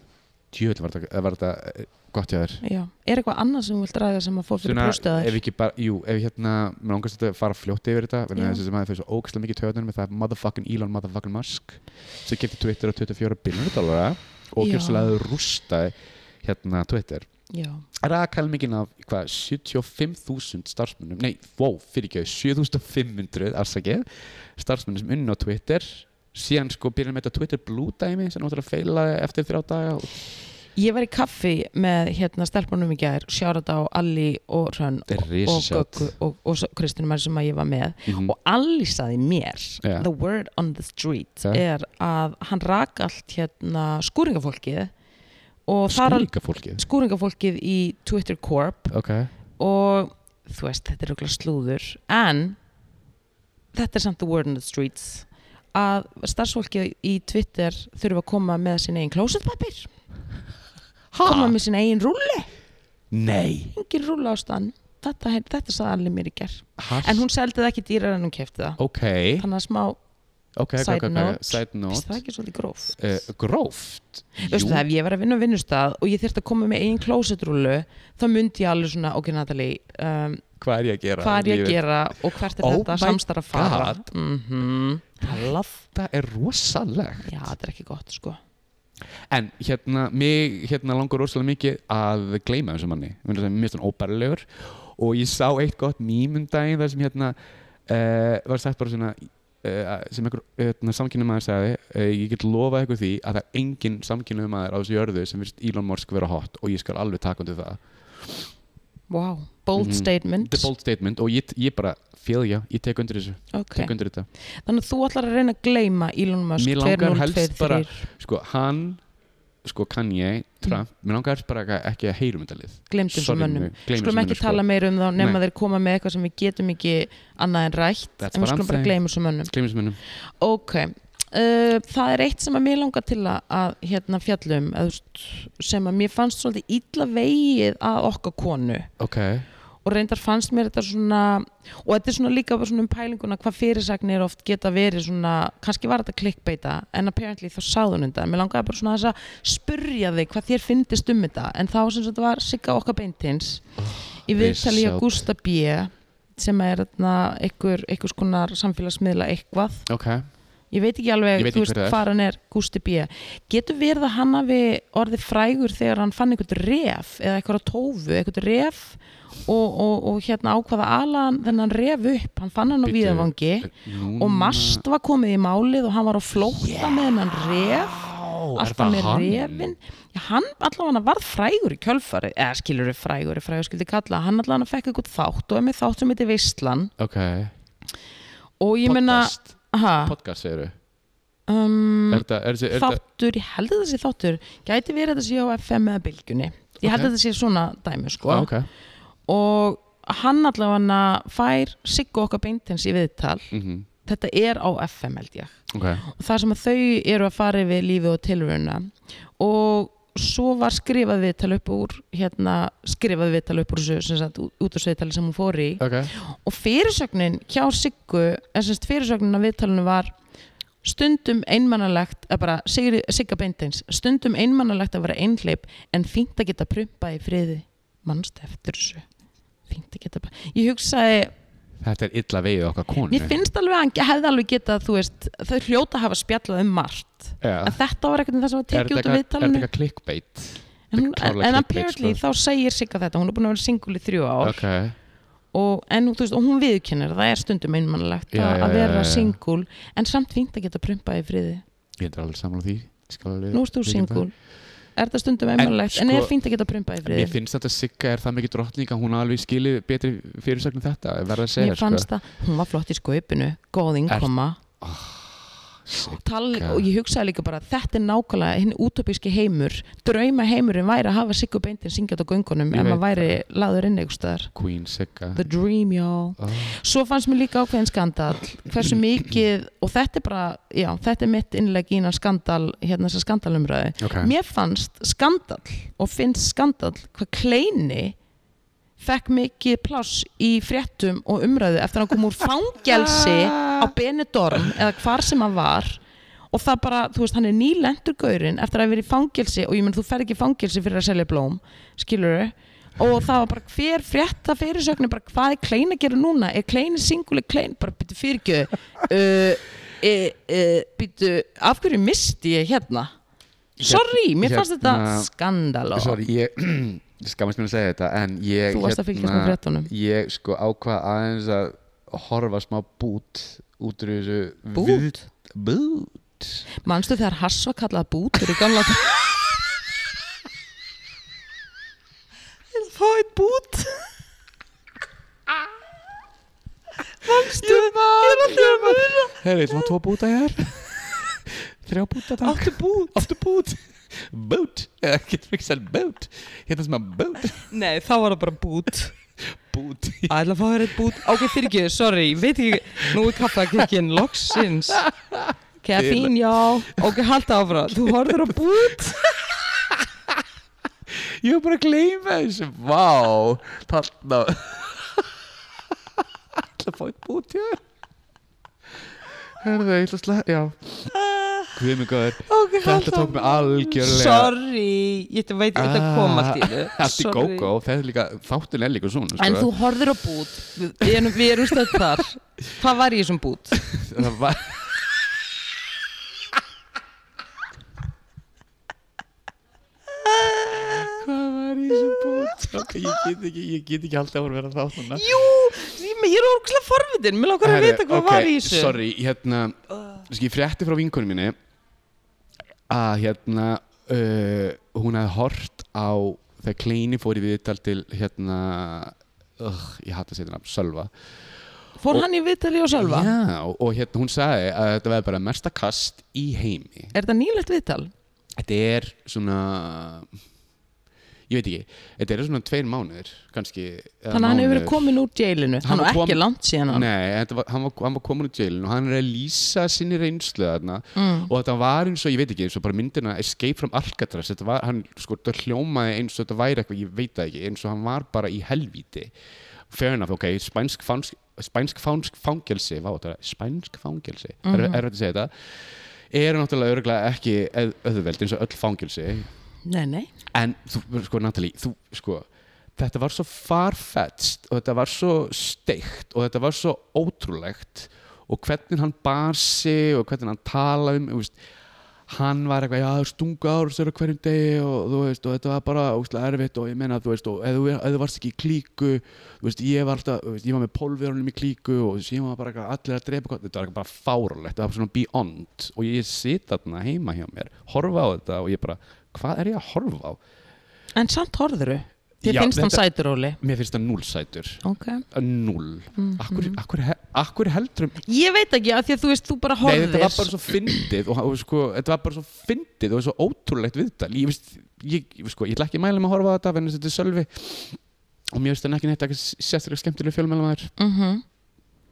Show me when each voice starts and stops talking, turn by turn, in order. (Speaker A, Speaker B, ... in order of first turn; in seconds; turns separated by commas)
Speaker A: 0.5-2.6, Speaker B: 2.6-5.4, Speaker A: 4.6-17.3, Speaker B: 8.3-8.6, Speaker B: 14.6-15.2, Speaker B: 17.5-17.8, Speaker A: 18.0-30.2, Speaker B: 30.8-44.9, Speaker A: 35.1-36.1, Speaker A: 38.1-38.3, Speaker B: 45.7-48.9, Speaker A: 45.9-46.8, Speaker A: 48.9-49.3, Speaker B: 49.6-52.6, Speaker B: 53.7-59.9, Speaker A: 61.1-61.5, Speaker B: 61.2-62.5, Speaker A: 63.1-63.7, Speaker B: 63.7-68.8, Speaker A: 66.8-67.2, Speaker A: 68.8-69.5, Speaker B: 69.4-70.0, Speaker A: 70.5-72.2, Speaker B: 70.8-73.0, Speaker A: 73.0-74.8, Speaker B: 74.4-80.4, Speaker A: 80.6-81.8, Speaker B: 81.2-85.8, Speaker A: 82.6-84.1, Speaker A: 85.2-87.5, Speaker B: 87.2-88.4, Speaker A: 89.3-97.4, Speaker A: 97.9-108.5, Speaker B: 109.1-110.7, Speaker A: 109.8-114.3, Speaker B: 113.5-113.9, Speaker B: 114.6-118.1, Speaker A: 116.6-119.0, Speaker A: 119.6-124.6, Speaker B: 122.9-129.5, Speaker A: 128.2-130.0, Speaker B: 130.4-138.9, Speaker A: 139.0-139.4, Speaker B: 139.8-153.6, Speaker A: 153.8-155.2, Speaker B: 154.2-159.9, Speaker A: 159.9-160.2, Speaker B: 160.7-186.9, Speaker A: 161.4-162.0, Speaker A: 172.8-174.8, Speaker A: 176.4-179.7, Speaker A: 187.0-187.5, Speaker B: 188.6-190.1, Speaker A: 188.8-190.7, Speaker B: 191.5-198.5, Speaker A: 192.1-193.0, Speaker A: 196.8-197.1, Speaker A: 198.2-198.7, Speaker B: 199.3-203.5, Speaker A: 203.5-203.9, Speaker B: 204.1-220.1, Speaker A: 205.7-206.0, Speaker A: 215.8-216.1, Speaker B: 220.8-229.0, Speaker B: 229.7-231.3, Speaker A: 231.8-233.4, Speaker B: 233.1-239.7, Speaker A: 237.4-237.8, Speaker A: 238.7-242.2, Speaker B: 240.9-244.6, Speaker A: 244.4-244.9, Speaker B: 245.5-251.6, Speaker A: 248.3-249.4, Speaker A: 252.0-254.2, Speaker B: 253.5-254.3, Speaker B: 254.9-257.3, Speaker A: 255.6-256.3, Speaker A: 257.0-262.1, Speaker B: 261.6-264.6, Speaker A: 264.8-266.9, Speaker B: 266.1-274.5, Speaker A: 272.7-273.4, Speaker A: 274.6-275.4, Speaker B: 275.3-288.1, Speaker A: 276.4-276.8, Speaker A: 284.0-284.3, Speaker B: 289.0-296.0, Speaker A: 292.9-293.9, Speaker B: 296.5-313.1, Speaker B: 313.8-316.2, Speaker A: 313.8-315.3, Speaker A: 315.9-326.6, Speaker B: 318.7-319.9, Speaker B: 324.7-325.2, Speaker B: 326.8-329.2, Speaker B: 332.7-334.1, Speaker B: 337.2-339.4, Speaker A: 337.2-347.7, Speaker B: 342.4-343.2, Speaker B: 347.7-349.1, Speaker A: 349.5-350.3, Speaker B: 350.3-355.1, Speaker A: 351.1-351.4, Speaker A: 353.1-353.8, Speaker A: 354.9-356.3, Speaker B: 355.8-359.3, Speaker A: 357.9-358.5, Speaker A: 359.4-360.1, Speaker A: 361.1-365.3, Speaker A: 366.6-367.8, Speaker A: 369.5-371.1, Speaker B: 371.2-371.7, Speaker A: 371.7-374.5, Speaker B: 372.4-377.7, Speaker A: 375.7-379.7, Speaker B: 379.4-383.8, Speaker A: 381.7-382.0, Speaker A: 383.8-384.9, Speaker B: 390.2-391.2, Speaker A: 390.8-395.3, Speaker B: 392.1-392.9, Speaker B: 395.1-399.0, Speaker A: 397.6-401.6, Speaker A: 402.9-411.1, Speaker B: 412.0-413.3, Speaker A: 412.9-417.1, Speaker B: 417.1-418.1, Speaker A: 418.6-420.3, Speaker A: 421.5-425.1, Speaker B: 424.3-427.1, Speaker A: 425.8-439.3, Speaker B: 431.1-431.5, Speaker A: 439.9-445.7, Speaker B: 444.6-445.0, Speaker A: 446.3-449.5, Speaker B: 449.9-450.3, Speaker A: 450.5-461.6, Speaker A: 462.3-480.4, Speaker B: 481.1-483.6, Speaker A: 482.4-483.0, Speaker A: 483.6-488.2, Speaker B: 484.8-485.2, Speaker B: 486.1-486.8, Speaker B: 488.2-491.1, Speaker A: 489.8-498.0, Speaker A: 498.5-500.9, Speaker B: 501.0-501.4